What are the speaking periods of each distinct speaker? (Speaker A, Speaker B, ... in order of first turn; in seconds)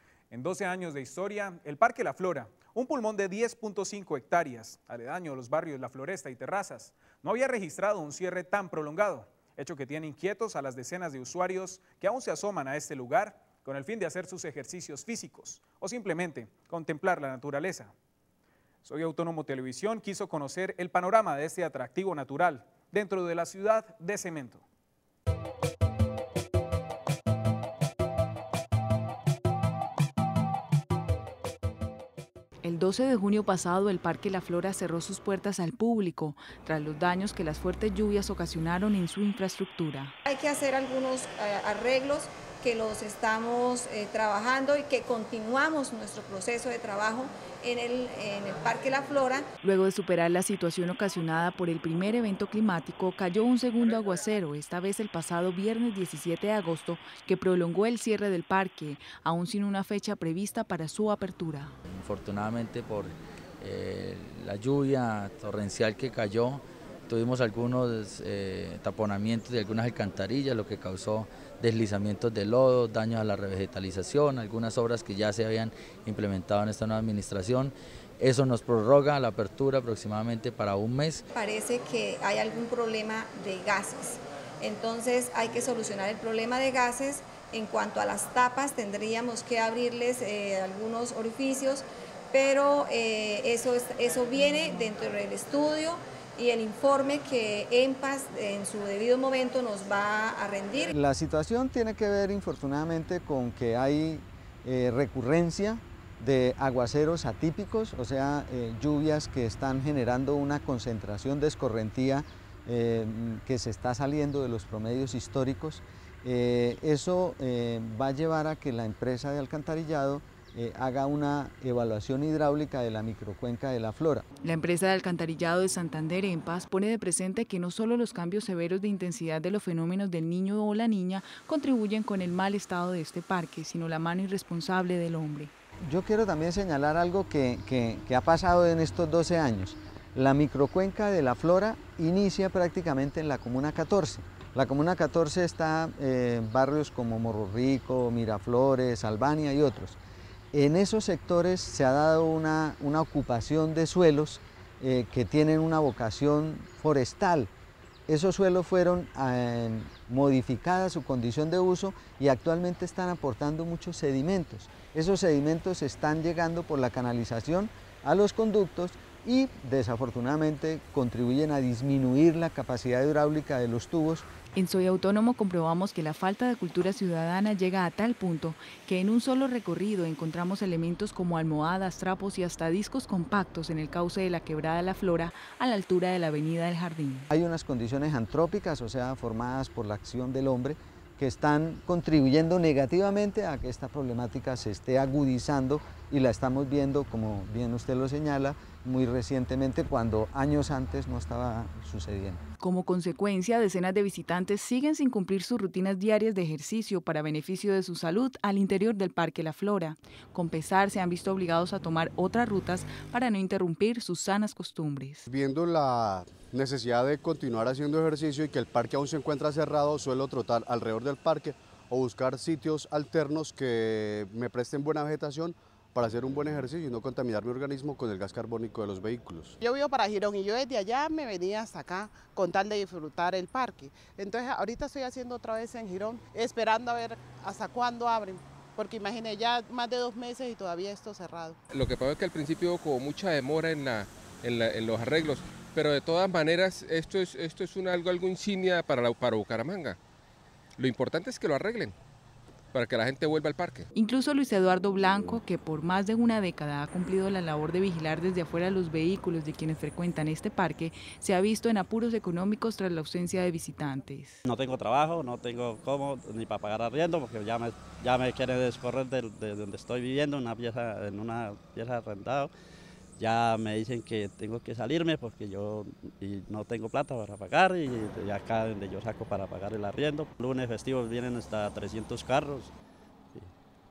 Speaker A: 0.3-17.9, 18.9-24.6
Speaker B: 32.6-40.1, 49.6-61.8, 124.4-135.5, 174.6-187.3, 202.6-215.2, 253.9-264.4
Speaker C: 40.3-49.4, 81.3-100.9
Speaker D: 61.9-81.2
Speaker E: 100.9-124.3, 135.8-150.0, 150.5-157.5, 158.1-174.3, 187.3-202.4
Speaker F: 215.3-229.6
Speaker G: 229.6-241.6
Speaker H: 241.7-250.0, 250.8-251.9, 252.7-253.9
Speaker I: 264.4-272.5, 273.2-282.7